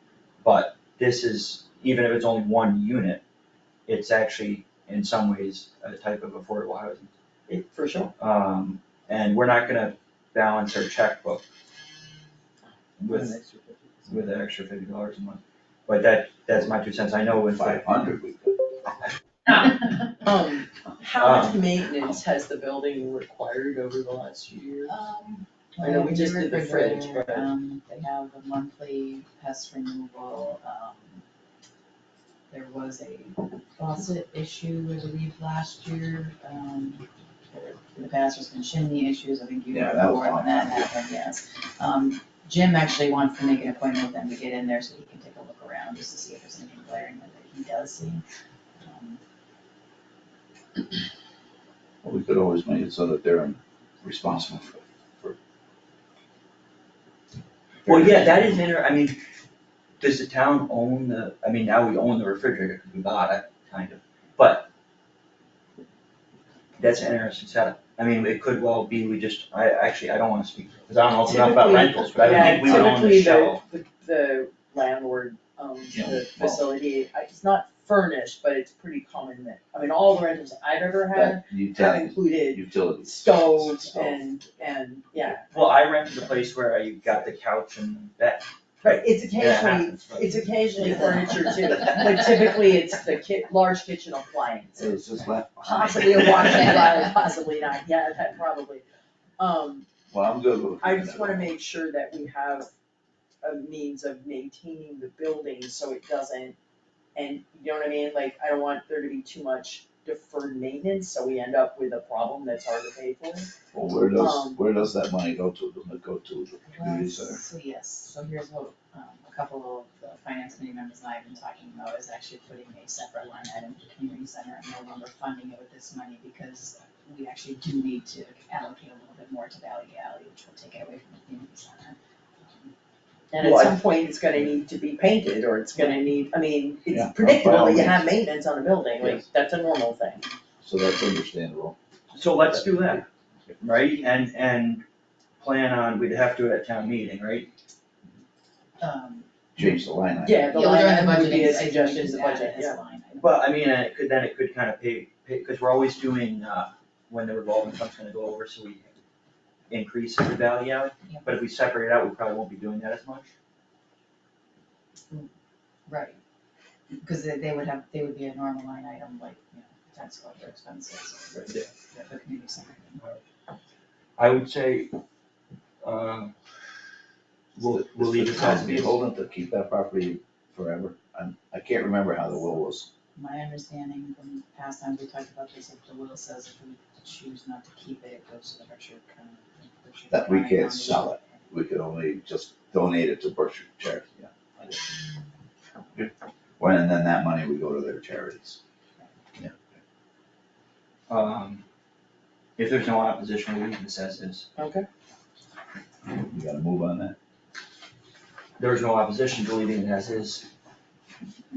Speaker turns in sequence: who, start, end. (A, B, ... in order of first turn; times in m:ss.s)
0:00.4-0:03.2 A
0:03.9-0:07.1 A
0:07.5-0:08.1 B
0:08.2-0:11.4 A
0:13.0-0:13.4 A
0:13.1-0:14.0 B
0:14.1-0:17.9 A
0:17.4-0:18.8 C
0:20.2-0:24.9 B
0:21.2-0:21.6 A
0:24.9-0:31.2 D
0:25.8-0:27.5 B
0:32.5-0:48.2 D
0:39.7-0:40.9 C
0:48.8-0:49.2 D
0:52.0-0:55.4 C
0:57.9-0:58.4 C
0:57.9-0:59.2 A
1:00.0-1:04.7 A
1:06.8-1:13.6 A
1:11.3-1:25.8 B
1:12.2-1:12.9 C
1:15.9-1:16.6 C
1:21.1-1:24.2 C
1:25.5-1:31.2 A
1:28.8-1:35.0 B
1:34.8-1:36.6 C
1:35.6-1:38.8 B
1:36.4-1:36.9 D
1:39.4-1:39.9 B
1:40.1-1:41.5 C
1:40.8-1:42.7 B
1:43.4-1:46.6 B
1:47.2-1:53.5 B
1:53.7-1:57.4 C
1:54.2-1:54.6 B
1:56.8-2:12.0 D
2:13.3-2:20.3 B
2:13.4-2:13.7 A
2:15.8-2:16.0 D
2:16.9-2:18.1 C
2:20.6-2:21.8 C
2:22.1-2:23.0 A
2:22.4-2:23.0 C
2:23.6-2:24.8 A
2:23.9-2:24.4 D
2:25.4-2:27.5 A
2:28.8-2:29.8 D
2:29.6-2:30.6 C
2:30.2-2:32.8 B
2:30.5-2:33.4 D
2:33.2-2:39.0 A
2:39.7-2:43.3 A
2:41.0-2:41.4 D
2:45.9-2:46.2 D
2:47.0-2:53.0 D
2:51.4-2:51.7 A
2:54.2-2:54.9 A
2:55.8-2:56.3 A
2:57.6-3:02.9 C
2:57.6-2:59.0 A
3:03.2-3:11.4 D
3:10.1-3:14.9 C
3:16.0-3:18.6 C
3:19.4-3:19.6 C
3:21.1-3:21.6 A
3:22.6-3:24.5 A
3:24.6-3:24.9 B
3:26.1-3:27.2 C
3:28.6-3:30.5 A